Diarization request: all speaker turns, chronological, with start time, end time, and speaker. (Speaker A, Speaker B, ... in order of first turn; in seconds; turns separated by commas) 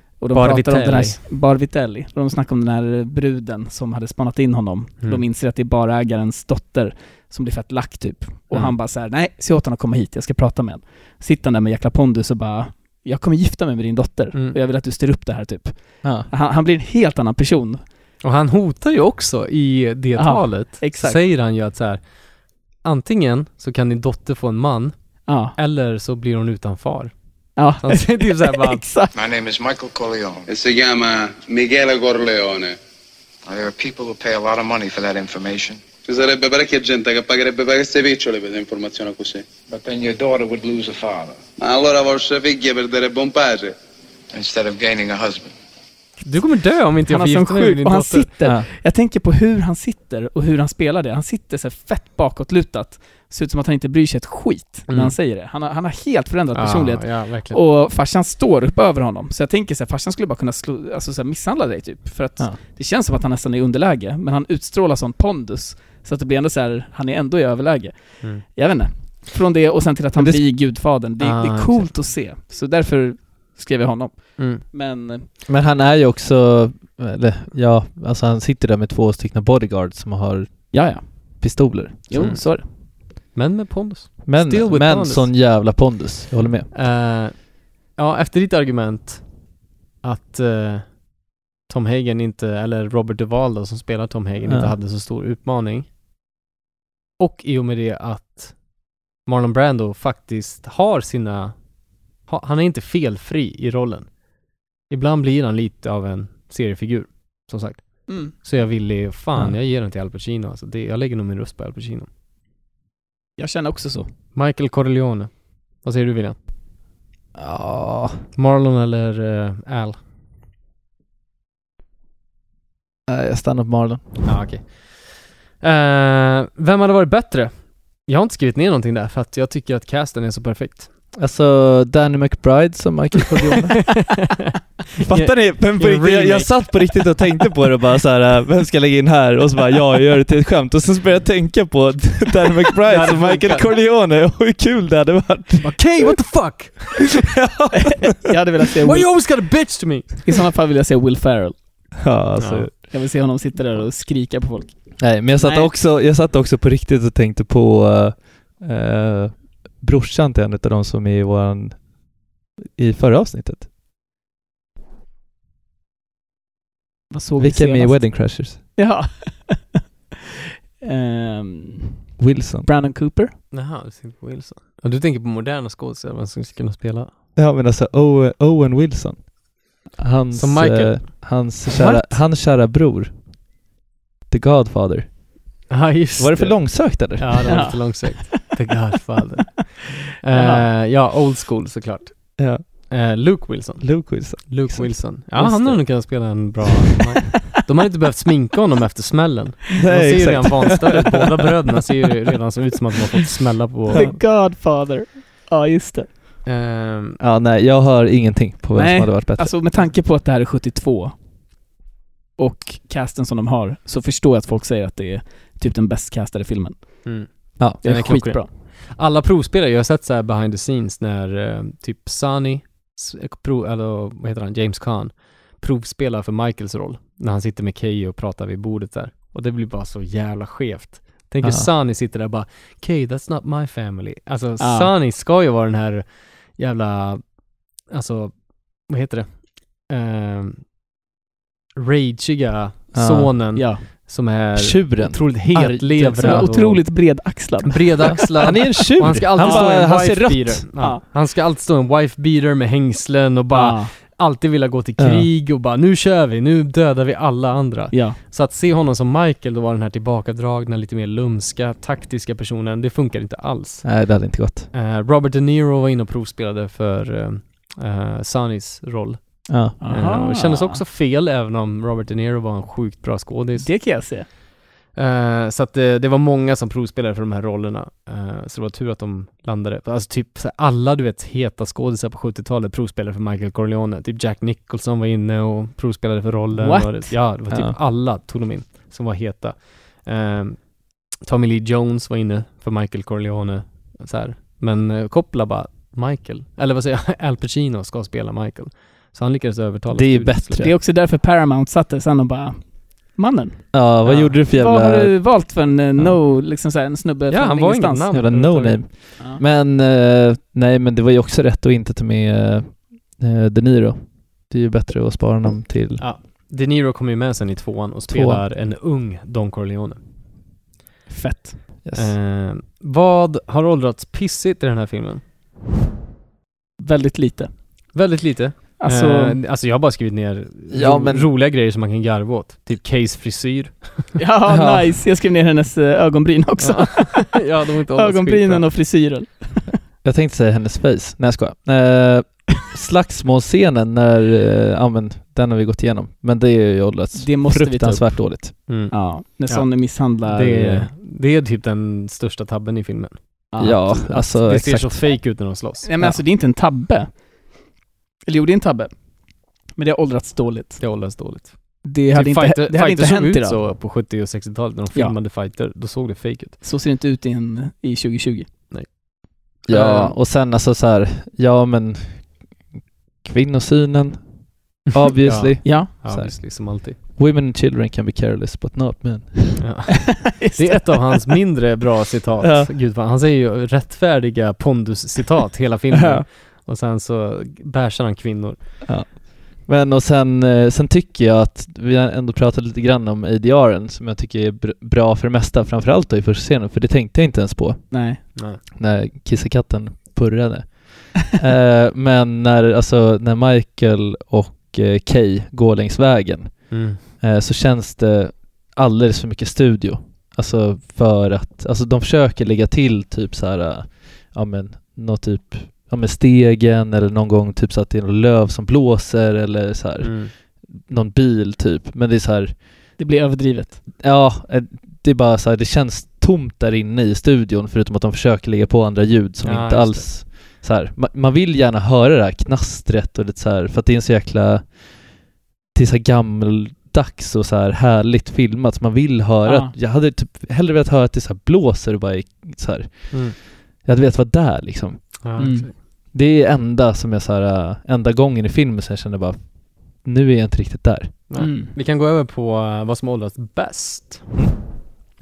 Speaker A: 0.2-17.8, Speaker B: 0.3-1.2, Speaker C: 16.0-16.3, Speaker B: 18.2-22.1, Speaker A: 20.2-21.2, Speaker B: 22.8-24.9, Speaker A: 25.3-25.6, Speaker B: 25.5-28.9, Speaker A: 27.6-29.1, Speaker D: 29.1-30.5, Speaker E: 30.5-32.8, Speaker D: 33.5-35.8, Speaker E: 36.1-39.4, Speaker D: 39.7-41.4, Speaker E: 41.6-43.8, Speaker D: 44.3-45.5, Speaker B: 46.2-48.3, Speaker A: 47.0-75.3, Speaker B: 54.9-55.1, Speaker B: 56.5-57.6, Speaker C: 70.2-70.5, Speaker B: 71.2-71.9, Speaker B: 74.4-74.6, Speaker C: 75.5-82.4, Speaker A: 80.7-82.7, Speaker B: 82.1-85.3, Speaker C: 84.2-86.7, Speaker B: 86.7-89.5, Speaker B: 90.0-95.9, Speaker C: 94.4-94.8, Speaker B: 97.2-101.6, Speaker B: 102.2-104.1, Speaker B: 104.9-112.1, Speaker A: 108.1-108.3, Speaker A: 113.4-114.1, Speaker B: 114.3-116.4, Speaker C: 117.4-118.2, Speaker B: 118.3-120.0, Speaker C: 123.1-124.3, Speaker B: 124.2-130.9, Speaker C: 131.2-134.1, Speaker B: 133.8-137.0, Speaker C: 135.0-146.1, Speaker B: 142.9-143.7, Speaker B: 145.7-147.2, Speaker C: 147.3-148.3, Speaker A: 148.2-149.3, Speaker B: 148.8-150.3, Speaker A: 150.2-151.9, Speaker C: 152.0-152.7, Speaker B: 152.4-152.7, Speaker A: 152.8-155.7, Speaker C: 155.0-162.0, Speaker C: 162.6-163.7, Speaker A: 167.1-169.8, Speaker C: 167.4-168.6, Speaker A: 170.8-172.1, Speaker C: 172.2-172.7, Speaker A: 172.6-173.3, Speaker B: 173.5-177.1, Speaker C: 177.4-183.2, Speaker B: 180.3-182.2, Speaker C: 184.3-185.2, Speaker B: 185.7-204.1, Speaker C: 186.2-187.8, Speaker A: 187.5-188.4, Speaker A: 190.3-190.7, Speaker C: 192.4-192.9, Speaker C: 193.8-196.3, Speaker A: 195.4-195.7, Speaker C: 199.8-201.2, Speaker A: 203.9-206.1, Speaker C: 203.9-204.2, Speaker B: 206.4-207.2, Speaker C: 207.2-209.6, Speaker A: 208.8-211.2, Speaker A: 212.4-217.2, Speaker B: 217.1-237.3, Speaker C: 217.6-218.1, Speaker A: 217.8-218.5, Speaker C: 231.4-231.7, Speaker A: 234.6-234.9, Speaker B: 237.9-240.7, Speaker B: 241.8-264.1, Speaker C: 242.9-243.6, Speaker A: 243.6-243.8, Speaker C: 244.6-246.5, Speaker A: 246.2-248.6, Speaker C: 248.2-250.7, Speaker A: 249.4-249.9, Speaker A: 253.5-253.9, Speaker C: 255.0-255.3, Speaker A: 257.9-258.2, Speaker C: 263.8-264.7, Speaker B: 264.7-274.3, Speaker C: 269.5-269.8, Speaker A: 269.8-270.8, Speaker A: 273.6-274.3, Speaker B: 274.9-300.7, Speaker A: 286.6-287.2, Speaker C: 287.5-287.8, Speaker C: 299.9-300.8, Speaker A: 300.6-308.1, Speaker C: 303.7-306.2, Speaker B: 307.3-308.9, Speaker C: 308.1-316.1, Speaker B: 316.0-320.0, Speaker C: 318.1-318.4, Speaker A: 321.1-321.6, Speaker C: 321.8-322.1, Speaker B: 321.9-325.2, Speaker A: 326.8-327.5, Speaker B: 327.9-334.2, Speaker A: 328.8-329.4, Speaker C: 330.7-331.3, Speaker A: 334.2-337.4, Speaker C: 334.5-335.0, Speaker B: 336.6-338.7, Speaker A: 337.9-339.7, Speaker C: 340.0-348.6, Speaker A: 347.1-350.9, Speaker B: 348.7-353.4, Speaker A: 353.5-354.3, Speaker C: 353.6-355.1, Speaker B: 354.2-355.9, Speaker A: 355.8-357.2, Speaker A: 358.3-358.9, Speaker A: 359.7-360.8, Speaker B: 360.8-366.6, Speaker A: 361.8-363.6, Speaker A: 366.6-368.5, Speaker B: 368.7-370.1, Speaker C: 369.7-372.5, Speaker C: 373.2-379.6, Speaker B: 375.2-377.0, Speaker A: 375.6-375.9, Speaker B: 379.6-388.8, Speaker A: 380.3-381.3, Speaker C: 382.4-382.7, Speaker C: 388.9-422.6, Speaker A: 397.9-398.2, Speaker B: 398.4-398.6, Speaker B: 406.7-407.0, Speaker B: 420.0-420.3, Speaker A: 423.0-423.8, Speaker C: 424.0-434.8, Speaker B: 429.4-430.3, Speaker C: 435.7-445.5, Speaker A: 439.4-439.7, Speaker B: 443.1-443.4, Speaker B: 445.2-445.8, Speaker A: 445.4-445.7, Speaker C: 446.1-451.3, Speaker B: 451.3-454.4, Speaker A: 451.4-451.7